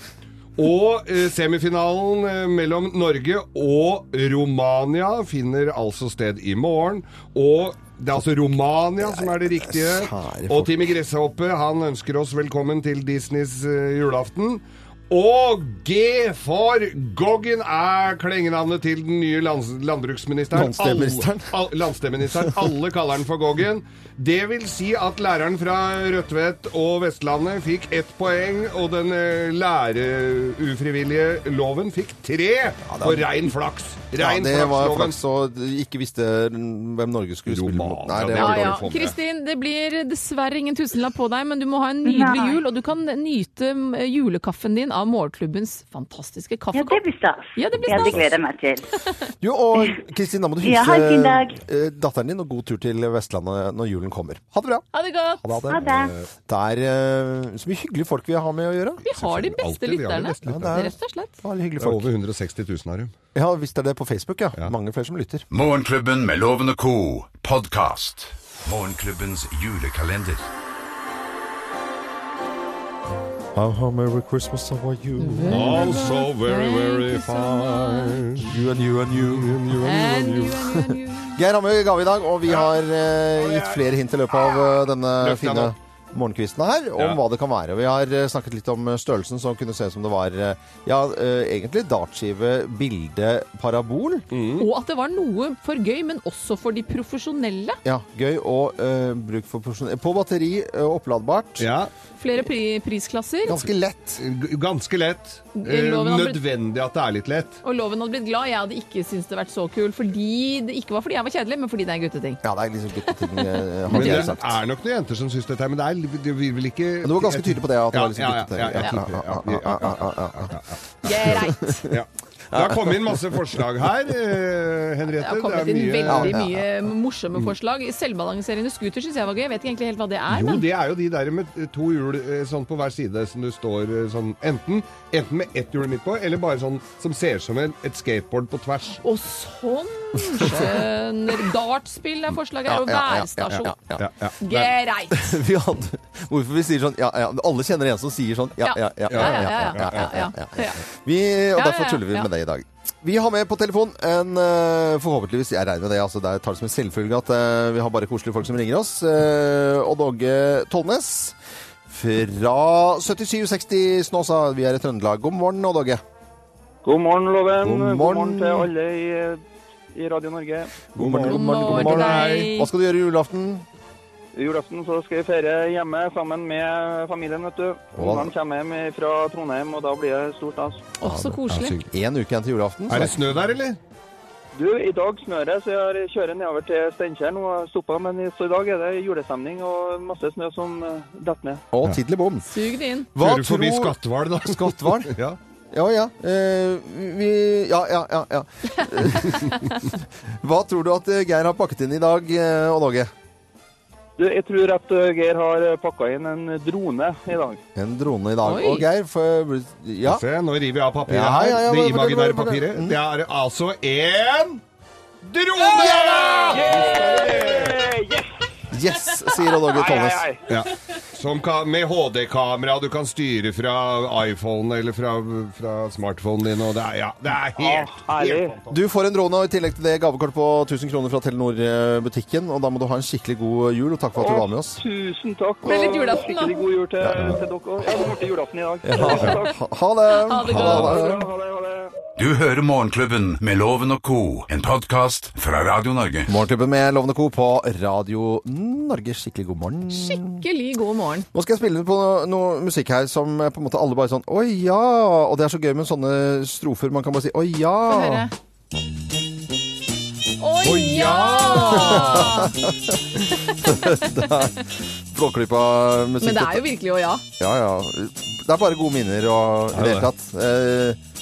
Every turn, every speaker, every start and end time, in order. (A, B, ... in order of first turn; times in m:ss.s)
0:00.6-0:35.2 A
0:09.0-0:11.0 B
0:20.5-0:21.5 B
0:22.3-0:22.7 B
0:32.9-0:33.3 B
0:34.2-0:38.9 B
0:37.5-0:39.2 A
0:38.4-0:47.0 C
0:42.0-0:42.6 D
0:46.7-0:49.0 D
0:47.6-0:48.3 C
0:47.9-0:48.3 A
0:49.4-0:54.9 B
0:50.6-0:51.6 D
0:54.9-0:55.6 C
0:55.4-0:59.0 B
0:55.7-0:56.1 D
0:55.8-0:56.3 A
0:59.0-1:01.4 C
0:59.1-1:00.8 A
1:00.5-1:02.1 B
1:01.8-1:03.1 A
1:03.4-1:05.4 B
1:05.5-1:10.5 E
1:13.6-1:16.2 B
1:15.2-1:18.3 C
1:15.4-1:18.6 A
1:18.4-1:19.9 B
1:19.2-1:20.6 A
1:19.8-1:21.4 C
1:20.9-1:34.3 B
1:25.2-1:25.7 A
1:34.3-1:34.7 A
1:34.6-1:37.8 C
1:37.8-1:41.7 B
1:41.6-1:41.9 A
1:42.2-1:43.6 C
1:43.5-1:44.2 B
1:44.2-1:47.6 A
1:45.6-1:46.4 C
1:47.6-1:52.4 C
1:52.4-1:54.6 B
1:53.9-1:54.4 C
1:53.9-2:00.8 A
1:57.0-2:00.6 B
2:01.0-2:01.9 C
2:01.2-2:01.9 B
2:01.9-2:06.4 A
2:02.5-2:03.2 B
2:05.2-2:10.6 C
2:06.1-2:06.6 B
2:10.3-2:19.0 A
2:19.0-2:23.8 C
2:22.7-2:41.4 B
2:24.0-2:24.4 A
2:24.4-2:25.4 C
2:28.6-2:30.8 C
2:29.1-2:30.1 A
2:31.6-2:32.3 C
2:41.9-2:46.0 B
2:46.8-2:50.8 F
2:47.6-2:48.7 B
2:50.9-2:53.6 B
2:51.0-2:52.5 A
2:51.3-2:52.7 C
2:54.4-3:00.9 F
2:57.9-2:58.3 B
3:01.0-3:01.8 C
3:01.0-3:03.2 B
3:01.5-3:01.8 A
3:02.9-3:03.8 A
3:04.6-3:11.6 F
3:11.7-3:12.5 B
3:12.5-3:13.1 C
3:13.2-3:15.2 B
3:13.2-3:15.4 A
3:15.7-3:23.1 B
3:18.8-3:19.6 C
3:24.2-3:27.6 F
3:27.8-3:30.2 B
3:28.4-3:28.9 C
3:30.0-3:34.6 A
3:31.1-3:33.0 B
3:35.2-3:37.8 A
3:36.5-3:38.3 F
3:38.7-3:40.3 B
3:39.6-3:40.4 F
3:40.5-3:48.7 A
3:47.6-3:48.6 F
3:48.7-3:54.8 B
3:54.2-3:59.6 F
3:55.6-3:56.6 C
3:57.0-3:57.4 B
3:58.8-4:01.2 B
4:00.2-4:01.0 C
4:00.4-4:00.9 A
4:00.6-4:01.9 F
4:02.2-4:06.3 E
4:06.3-4:10.4 B
4:09.9-4:11.3 C
4:11.3-4:18.3 B
4:17.9-4:18.3 C
4:20.4-4:22.5 C
4:20.6-4:22.4 A
4:21.7-4:26.7 B
4:23.6-4:24.3 C
4:26.2-4:27.2 C
4:27.4-4:31.0 B
4:29.7-4:30.1 A